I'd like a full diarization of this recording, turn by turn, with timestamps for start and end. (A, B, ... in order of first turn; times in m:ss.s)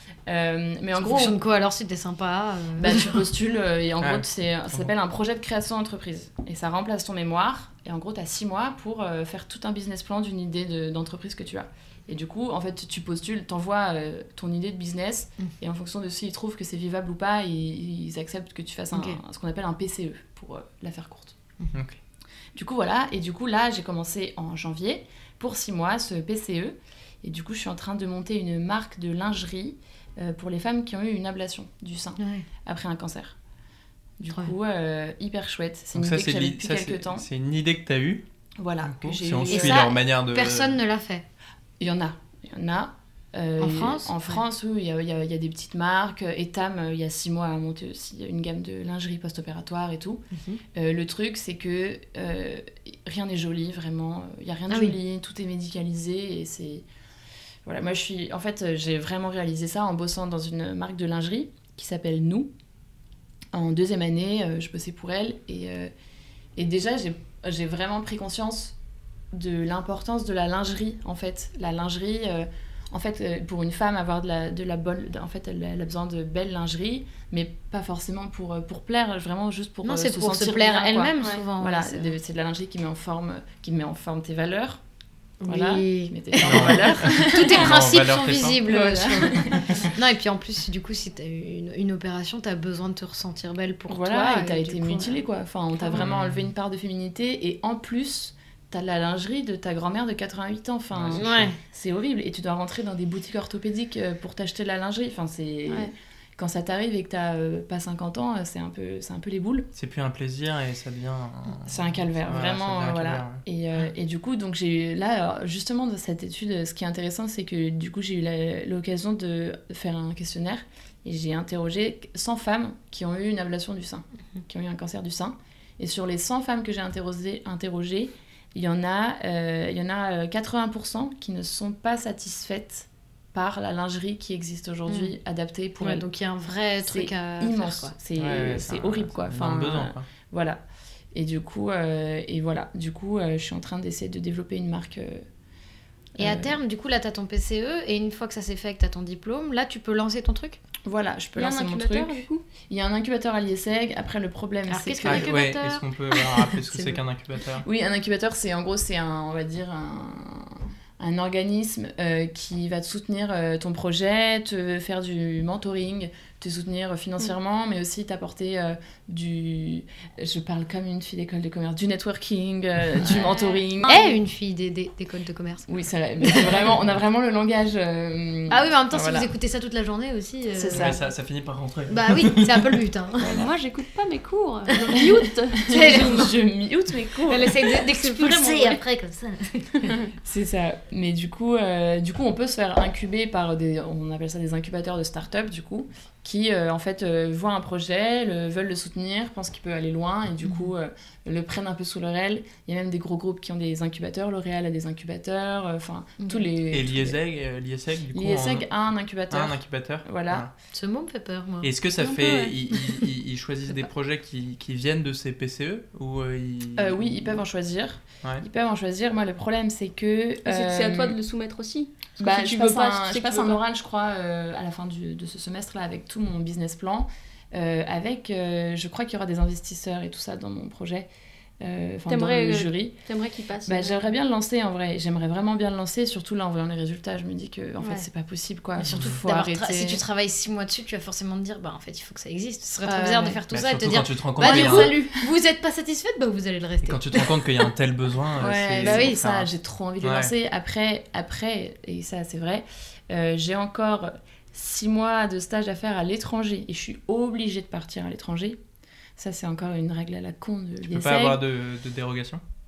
0:00.3-0:01.4 A
0:01.0-0:03.3 B
0:02.8-0:21.4 A
0:04.0-0:04.9 C
0:18.9-0:19.2 B
0:21.7-0:22.0 C
0:22.6-0:33.4 A
0:32.2-0:32.4 B
0:34.2-0:37.3 A
0:36.0-0:38.2 C
0:38.6-0:39.9 A
0:38.8-0:40.8 C
0:39.5-0:41.2 B
0:41.8-0:56.9 A
0:43.6-0:44.3 B
0:50.3-0:50.6 B
0:54.7-0:55.0 B
0:57.6-1:02.5 A
1:03.5-1:05.9 A
1:06.6-1:08.8 A
1:09.3-1:24.8 A
1:19.8-1:22.1 B
1:25.4-1:35.2 B
1:25.4-1:27.7 A
1:26.4-1:28.7 C
1:28.6-1:29.9 A
1:33.9-1:49.7 A
1:35.9-1:36.5 C
1:40.9-1:41.5 C
1:41.1-1:41.6 B
1:49.8-1:53.4 C
1:51.6-2:16.0 A
2:14.9-2:15.1 B
2:15.8-2:17.9 B
2:16.8-2:20.6 A
2:18.2-2:20.0 C
2:21.1-2:25.2 A
2:26.2-2:26.6 A
2:26.2-2:30.6 B
2:30.8-2:35.3 A
2:31.4-2:32.4 D
2:34.7-2:37.0 B
2:35.0-2:37.6 C
2:37.6-2:54.0 A
2:53.1-2:53.3 B
2:53.1-2:54.2 D
2:53.8-2:55.7 B
2:55.7-2:59.3 A
2:56.2-2:56.6 B
2:58.5-3:01.0 B
3:00.5-3:01.0 A
3:00.7-3:02.8 C
3:01.9-3:03.4 B
3:03.2-3:03.5 A
3:03.2-3:06.1 D
3:05.6-3:07.9 A
3:05.6-3:06.3 B
3:07.2-3:10.0 B
3:07.9-3:08.8 D
3:10.1-3:27.2 A
3:20.4-3:20.7 B
3:26.2-3:26.5 B
3:26.7-3:28.7 C
3:28.1-3:30.5 A
3:29.3-3:30.5 C
3:30.7-3:31.7 B
3:31.6-3:37.4 C
3:32.0-3:32.6 D
3:36.8-3:41.2 A
3:40.4-3:43.6 D
3:42.2-3:51.1 A
3:51.6-3:53.0 A
3:52.1-3:54.0 D
3:53.6-4:00.0 A
3:58.8-3:59.1 C
3:58.9-4:07.7 B
4:02.8-4:03.4 A
4:03.5-4:05.0 C
4:04.4-4:05.1 A
4:06.8-4:09.5 C
4:08.4-4:18.6 A
4:08.8-4:09.2 B
4:10.0-4:10.3 C
4:19.2-4:21.4 A
4:20.9-4:22.4 C